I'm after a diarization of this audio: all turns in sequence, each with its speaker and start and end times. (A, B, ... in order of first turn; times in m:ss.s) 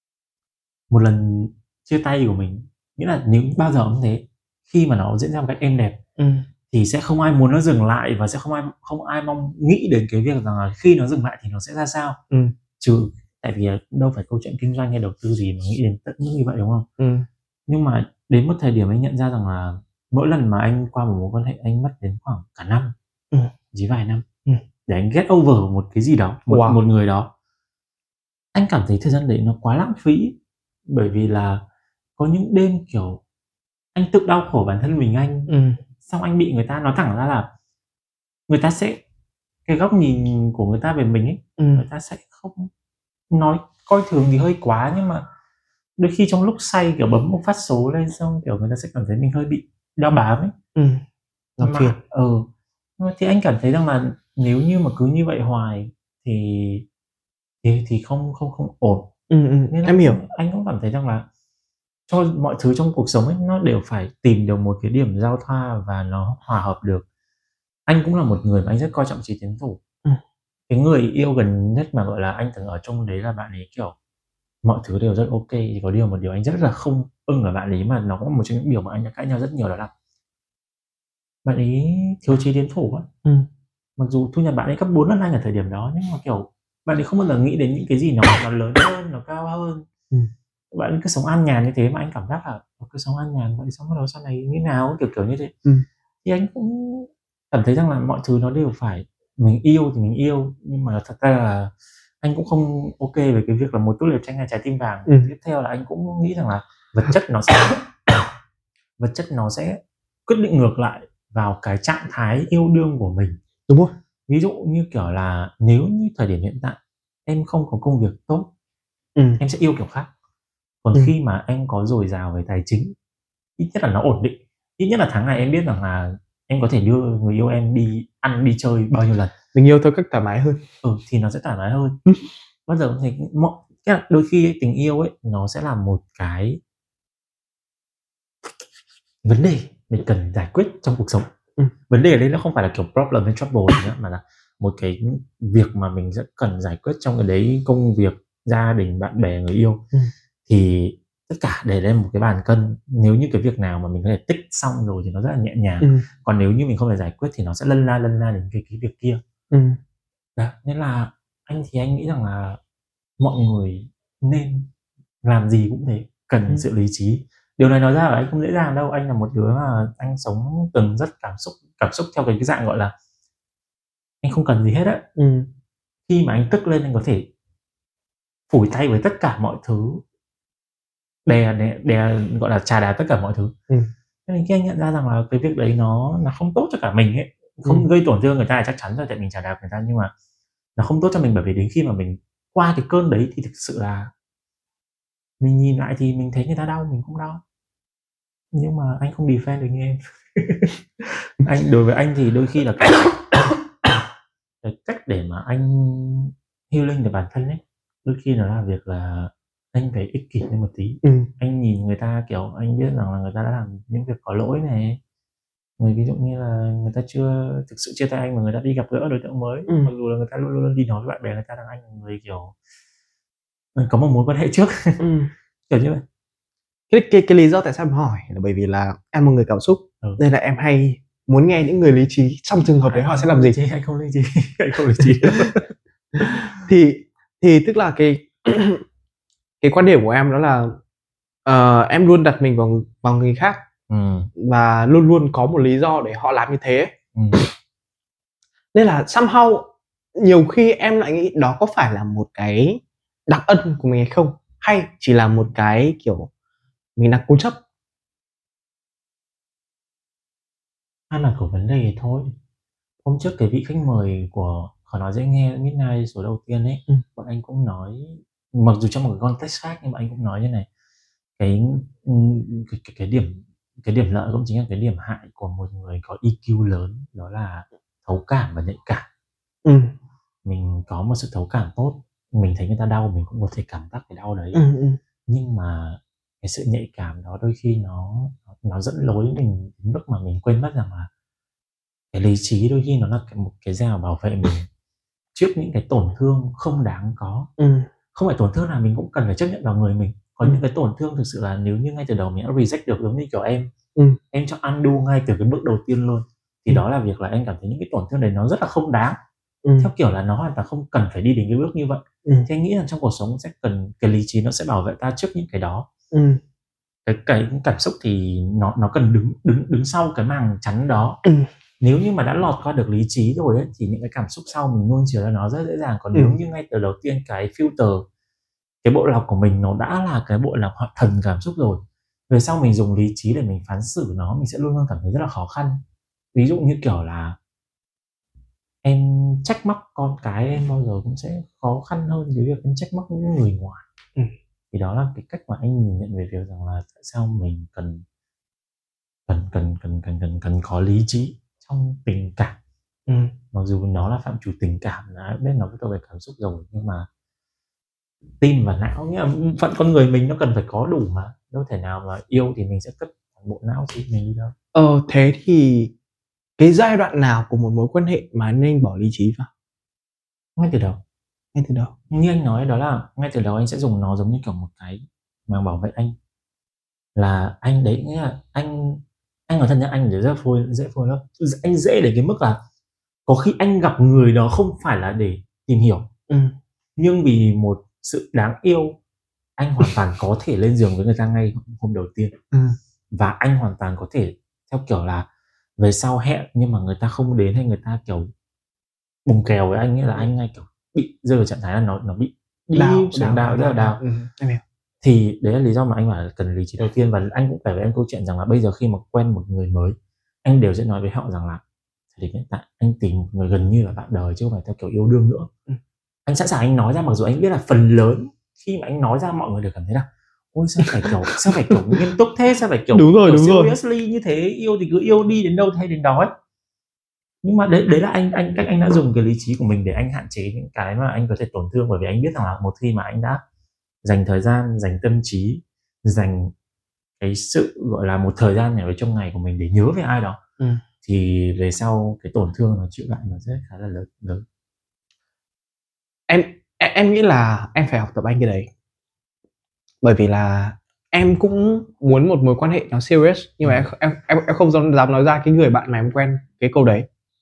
0:00.9-0:06.0 A
0:06.2-0:06.5 B
0:06.7-0:12.2 A
0:12.8-0:16.9 A
0:17.0-0:17.3 B
0:17.7-0:22.9 A
0:23.7-0:24.2 A
0:24.9-0:27.3 A
0:26.5-0:26.8 B
0:28.5-0:31.6 A
0:32.2-0:33.2 A
0:33.9-0:35.5 A
0:35.5-0:35.8 B
0:36.0-0:37.5 A
0:38.5-0:39.0 A
0:39.6-0:42.7 A
0:41.6-0:41.8 B
0:43.3-0:45.2 A
0:46.0-0:50.5 A
0:50.7-0:51.0 B
0:51.6-0:52.0 B
0:51.6-0:56.8 A
0:57.6-0:59.1 A
0:59.3-1:00.2 B
0:59.7-1:01.3 A
1:02.1-1:07.0 A
1:07.9-1:09.8 A
1:10.7-1:13.9 A
1:14.6-1:19.9 A
1:21.4-1:23.1 A
1:24.0-1:29.8 A
1:30.7-1:35.5 A
1:36.2-1:48.2 A
1:49.0-1:53.4 A
1:53.7-1:53.9 B
1:54.3-1:58.5 A
1:59.2-1:59.4 B
1:59.4-2:00.1 A
2:00.8-2:02.9 A
2:03.6-2:09.3 A
2:09.5-2:10.6 B
2:10.8-2:12.0 A
2:12.6-2:16.6 A
2:19.2-2:21.3 A
2:21.9-2:29.8 A
2:30.5-2:39.2 A
2:39.5-2:39.8 B
2:40.4-2:42.6 A
2:43.2-2:44.7 A
2:45.2-2:52.9 A
2:54.2-2:55.0 A
2:55.2-2:55.5 B
2:56.1-2:57.3 A
2:58.5-3:00.0 A
3:01.2-3:03.5 A
3:04.2-3:10.1 A
3:10.8-3:14.1 A
3:15.4-3:17.4 A
3:18.5-3:23.5 A
3:24.6-3:35.0 A
3:31.0-3:31.3 B
3:35.8-3:42.5 A
3:43.8-3:45.0 A
3:45.0-3:45.3 B
3:45.7-3:46.0 A
3:46.9-3:53.6 B
3:52.8-3:56.5 A
3:56.2-3:58.8 B
3:59.6-4:00.8 B
4:01.4-4:03.6 B
4:03.9-4:04.3 A
4:04.4-4:06.9 B
4:07.1-4:07.4 A
4:08.7-4:16.3 B
4:17.0-4:17.6 B
4:21.1-4:22.3 A
4:23.0-4:30.7 A
4:31.4-4:39.1 A
4:39.6-4:39.9 B
4:40.4-4:44.6 A
4:44.5-4:45.0 B
4:45.3-4:51.1 A
4:52.1-4:54.7 A
4:55.3-4:57.5 A
4:57.6-4:57.9 B
4:58.1-5:03.7 A
5:04.3-5:09.2 A
5:09.6-5:09.9 B
5:09.8-5:15.9 A
5:16.1-5:16.4 B
5:17.0-5:21.2 A
5:21.8-5:28.0 A
5:28.8-5:35.8 A
5:36.3-5:37.4 A
5:38.8-5:43.8 A
5:44.7-5:48.0 A
5:49.3-5:52.6 A
5:53.1-5:53.3 B
5:53.5-5:57.1 A
5:58.4-6:04.5 A
6:04.7-6:05.9 B
6:06.6-6:09.5 B
6:10.6-6:11.0 A
6:11.5-6:11.9 B
6:12.1-6:16.2 A
6:17.1-6:22.6 A
6:23.2-6:26.1 A
6:26.3-6:26.5 B
6:27.0-6:29.0 A
6:29.6-6:32.3 A
6:32.5-6:32.8 B
6:33.1-6:38.3 A
6:39.2-6:44.0 A
6:42.7-6:44.6 B
6:45.0-6:51.6 A
6:52.1-6:55.5 A
6:56.2-7:06.3 A
7:01.7-7:02.0 B
7:02.9-7:03.8 B
7:07.4-7:13.4 A
7:14.0-7:16.5 A
7:17.2-7:20.4 A
7:21.0-7:24.4 A
7:26.3-7:28.7 B
7:30.0-7:37.1 B